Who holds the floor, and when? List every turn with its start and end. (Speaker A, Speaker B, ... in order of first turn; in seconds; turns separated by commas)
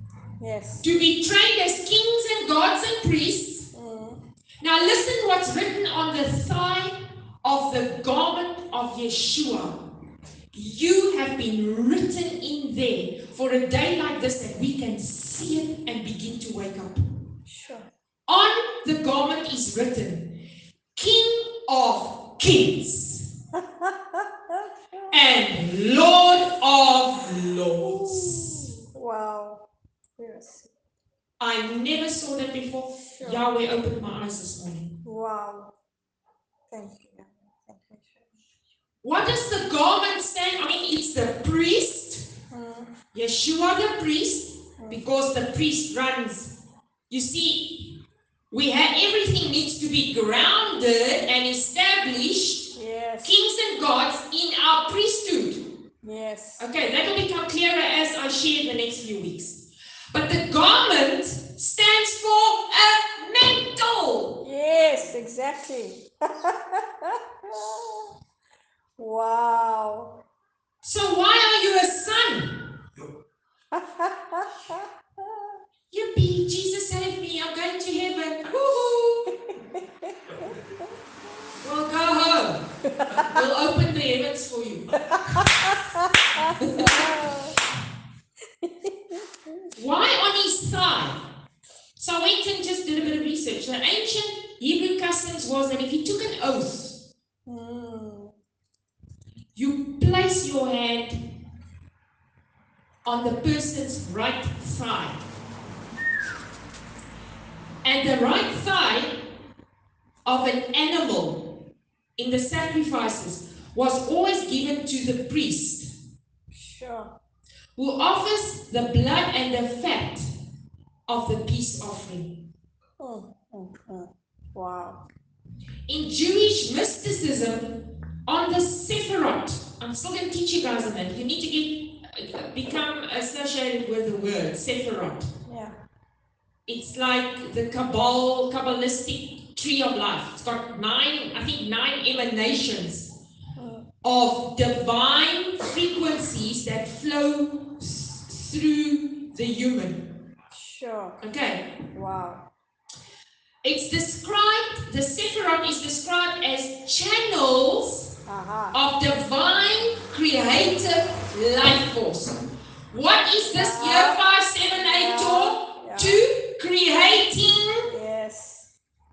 Speaker A: 0.4-0.8, Speaker B: 0.8-3.7, Speaker A: 3.7-4.2, Speaker B: 4.6-9.8, Speaker B: 10.5-17.0, Speaker A: 17.5-17.9, Speaker B: 18.3-20.4, Speaker B: 20.9-23.3, Speaker A: 23.6-25.1, Speaker B: 25.1-28.7, Speaker A: 27.8-29.7, Speaker A: 30.2-30.7, Speaker B: 31.4-34.9, Speaker A: 33.1-33.4, Speaker A: 35.0-35.7, Speaker A: 36.7-38.2, Speaker B: 39.0-42.3, Speaker A: 42.5-42.9, Speaker B: 43.1-46.5, Speaker B: 47.1-47.9, Speaker B: 48.5-52.7, Speaker A: 52.7-53.4, Speaker B: 53.2-55.6, Speaker A: 56.0-56.6, Speaker B: 56.6-64.4, Speaker A: 64.4-68.1, Speaker A: 69.0-70.2, Speaker B: 70.8-72.7, Speaker A: 73.7-75.4, Speaker B: 75.9-79.3, Speaker A: 80.1-80.9, Speaker B: 81.6-85.5, Speaker A: 82.9-83.3, Speaker A: 85.1-87.6, Speaker B: 86.6-87.1, Speaker A: 88.6-89.7, Speaker B: 89.7-91.2, Speaker B: 92.0-97.0, Speaker A: 97.5-98.3, Speaker B: 99.5-101.2, Speaker B: 103.0-105.2, Speaker B: 107.8-109.2, Speaker B: 110.2-111.6, Speaker B: 112.2-115.9, Speaker A: 116.5-117.1, Speaker B: 117.8-120.3, Speaker B: 121.1-122.5, Speaker A: 123.0-125.0, Speaker B: 125.9-135.3, Speaker A: 135.4-135.7, Speaker B: 136.7-143.1, Speaker A: 143.6-143.9, Speaker B: 144.0-150.1, Speaker A: 150.5-151.2, Speaker B: 151.2-151.7, Speaker A: 151.9-152.5, Speaker B: 153.6-158.1, Speaker A: 158.2-158.8, Speaker B: 158.7-167.9, Speaker A: 163.4-164.2, Speaker A: 164.7-166.2, Speaker A: 167.9-168.7